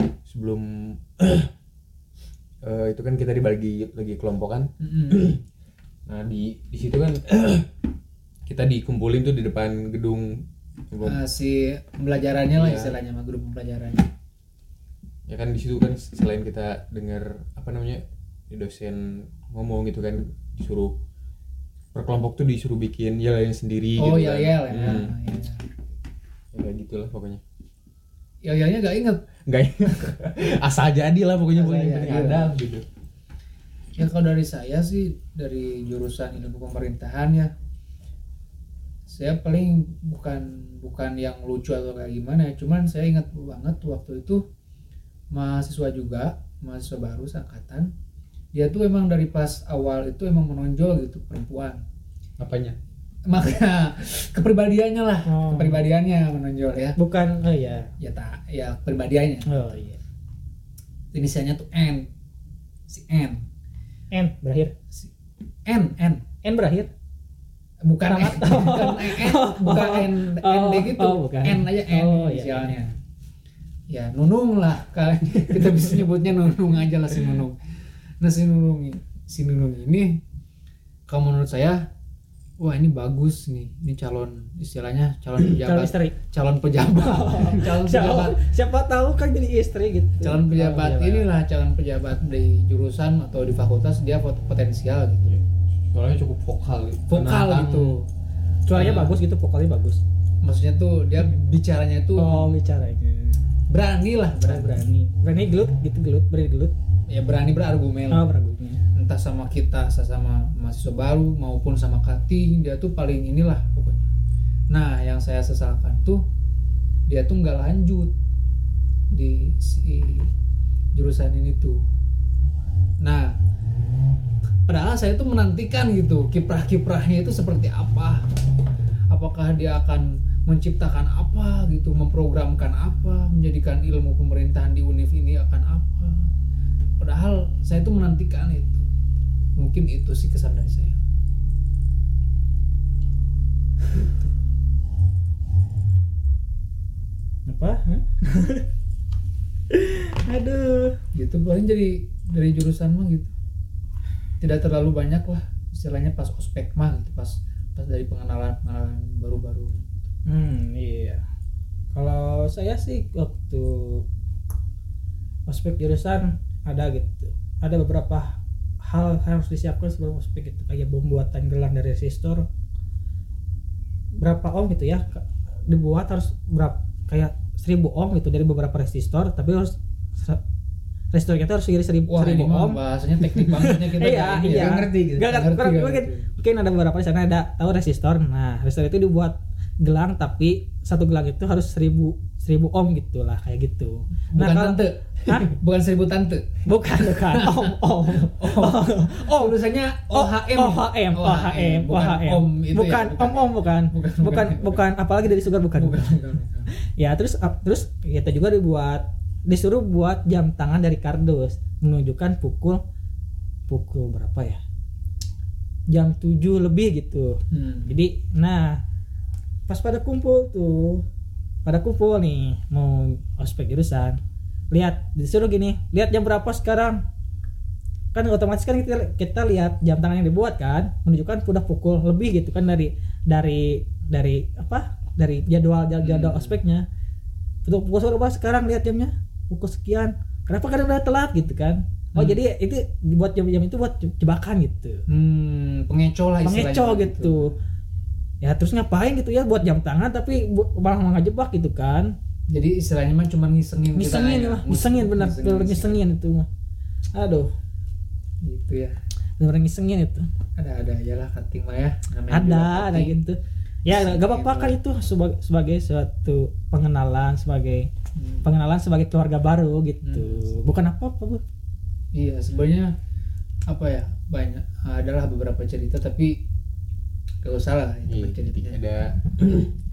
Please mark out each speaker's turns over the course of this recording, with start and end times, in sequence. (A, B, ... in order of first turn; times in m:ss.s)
0:00.3-0:01.5 A
0:02.6-0:05.4 A
0:04.8-0:05.3 B
0:06.1-0:07.7 A
0:08.5-0:11.2 A
0:11.0-0:14.1 B
0:12.5-0:13.0 A
0:15.3-0:21.0 A
0:21.9-0:25.1 A
0:24.0-0:25.7 B
0:26.5-0:27.4 A
0:28.4-0:29.2 B
0:29.5-0:32.8 A
0:31.5-0:32.6 B
0:34.0-0:37.5 B
0:39.1-0:44.4 B
0:45.3-0:47.9 B
0:48.5-0:51.8 B
0:52.4-0:52.8 A
0:53.3-0:57.0 B
0:55.3-0:55.8 C
0:57.0-0:57.9 C
0:58.0-0:59.8 B
0:59.5-1:00.0 C
1:01.1-1:02.1 B
1:02.9-1:03.4 B
1:04.1-1:04.7 C
1:05.7-1:06.3 B
1:06.4-1:06.9 C
1:07.8-1:12.9 B
1:08.1-1:12.8 C
1:13.9-1:17.6 B
1:18.2-1:20.2 B
1:21.1-1:21.9 B
1:22.6-1:28.4 B
1:25.4-1:26.2 C
1:26.9-1:31.3 C
1:30.2-1:35.3 B
1:35.9-1:38.0 A
1:37.1-1:38.1 B
1:38.7-1:40.0 C
1:38.7-1:39.2 B
1:40.4-1:42.6 B
1:42.2-1:43.4 C
1:43.7-1:44.8 B
1:44.4-1:46.7 C
1:47.1-1:48.3 B
1:48.1-1:48.8 C
1:49.0-1:54.1 B
1:54.7-1:56.2 B
1:57.1-1:58.1 B
1:59.1-2:00.3 B
2:01.0-2:01.8 B
2:03.0-2:03.4 B
2:04.7-2:08.3 B
2:09.1-2:16.3 B
2:17.0-2:18.9 B
2:19.6-2:21.0 B
2:24.0-2:24.2 B
2:27.5-2:28.7 C
2:29.7-2:31.0 C
2:31.1-2:33.3 B
2:34.4-2:39.8 B
2:40.3-2:41.2 C
2:41.9-2:44.0 C
2:45.5-2:52.5 C
2:54.2-3:00.4 C
3:01.1-3:15.5 C
3:02.1-3:06.3 B
3:14.3-3:24.8 B
3:16.7-3:19.6 C
3:20.1-3:26.2 C
3:25.8-3:26.7 B
3:26.8-3:32.8 C
3:33.7-3:34.6 C
3:35.9-3:38.8 C
3:37.5-3:37.9 B
3:39.7-3:41.0 C
3:41.6-3:44.2 C
3:44.7-3:47.0 C
3:48.1-3:56.8 C
3:56.0-3:56.6 B
3:57.6-4:05.0 C
4:05.1-4:07.5 B
4:06.4-4:07.6 C
4:08.4-4:12.1 C
4:12.5-4:16.0 B
4:14.0-4:16.5 C
4:17.2-4:17.5 C
4:18.4-4:19.0 B
4:19.4-4:20.3 C
4:20.6-4:23.2 B
4:22.3-4:27.9 C
4:23.9-4:24.8 B
4:28.2-4:28.5 B
4:28.4-4:31.4 C
4:30.0-4:30.6 B
4:32.1-4:32.9 B
4:33.7-4:36.4 B
4:37.4-4:38.8 B
4:38.1-4:39.7 A